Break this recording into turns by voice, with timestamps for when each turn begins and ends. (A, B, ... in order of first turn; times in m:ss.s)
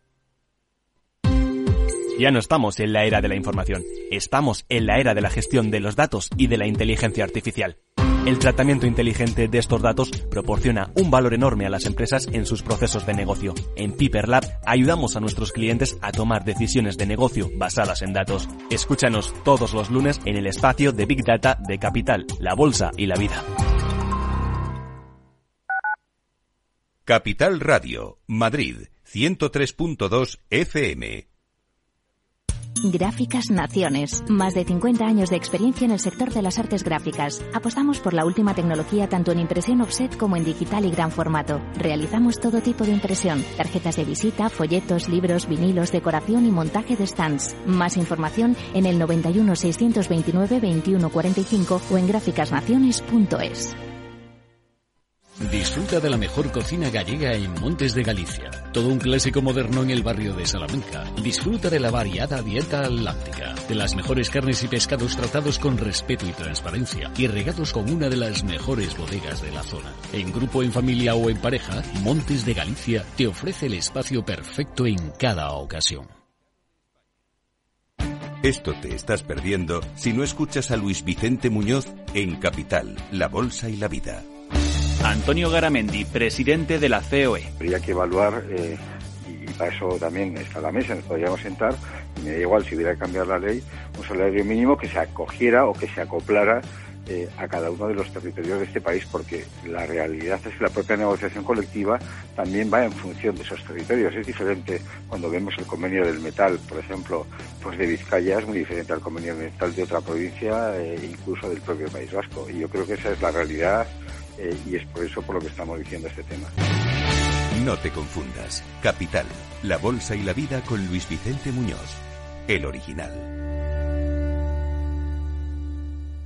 0:02.2-0:23.4 A
0:27.0-0:31.2 B
0:32.8-0:53.8 C
0:55.4-1:16.1 D
1:18.4-1:24.2 B
1:25.0-1:27.5 E
1:27.6-1:56.5 F
1:57.5-2:03.3 B